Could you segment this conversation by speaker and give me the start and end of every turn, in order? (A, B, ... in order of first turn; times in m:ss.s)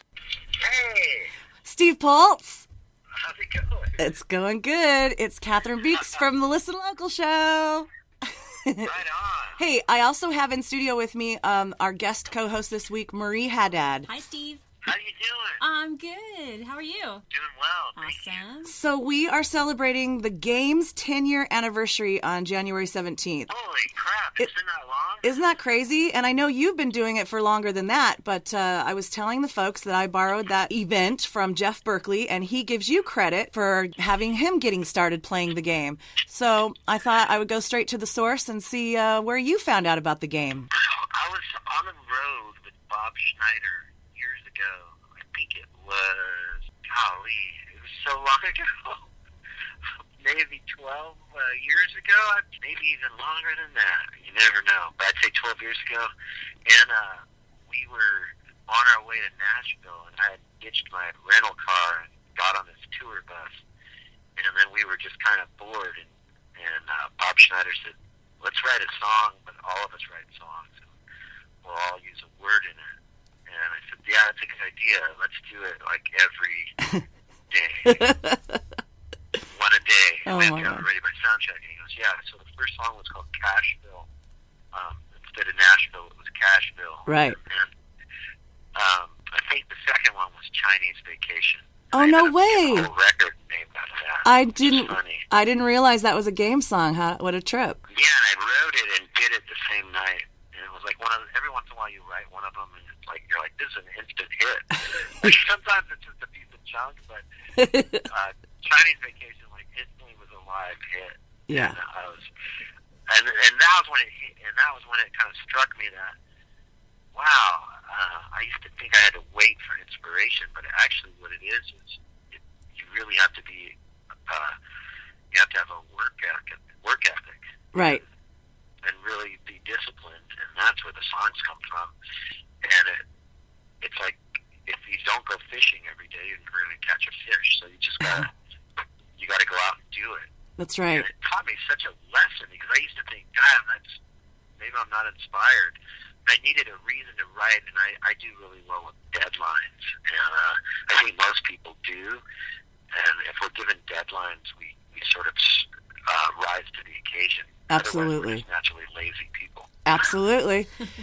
0:00.6-0:01.3 A
0:01.6-0:02.7 B
0:03.2-0:04.1 A
0:04.0-0:08.9 B
0:08.8-0:09.6 A
0:09.6-0:14.1 B
0:14.1-0:14.6 C
0:14.8-0:15.6 A
0:15.6-0:17.2 C
0:17.3-0:18.5 A
0:18.0-0:18.8 C
0:18.6-0:23.5 B
0:23.5-0:25.4 A
0:25.2-0:40.7 B
0:40.8-0:49.1 A
0:50.2-0:56.1 A
0:56.7-1:03.6 A
1:04.4-1:10.9 A
1:11.6-1:12.9 A
1:13.5-1:16.8 A
1:17.5-1:18.1 A
1:17.9-1:18.6 B
1:19.5-1:24.1 A
1:20.3-1:20.8 B
1:24.7-1:27.7 A
1:27.1-1:27.4 B
1:28.8-1:35.2 A
1:31.9-1:32.9 B
1:34.2-1:37.8 B
1:37.9-1:47.2 A
1:47.6-1:48.0 B
1:48.1-1:52.3 A
1:51.5-1:51.8 B
1:53.1-1:56.2 A
1:57.1-2:03.8 A
2:04.3-2:04.5 A
2:05.3-2:08.0 A
2:07.7-2:08.0 B
2:08.8-2:11.9 A
2:12.6-2:13.0 A
2:13.8-2:18.3 A
2:19.2-2:20.3 A
2:20.6-2:21.1 B
2:20.9-2:24.0 A
2:24.6-2:32.2 A
2:32.9-2:39.8 A
2:37.7-2:38.4 B
2:39.9-2:40.7 B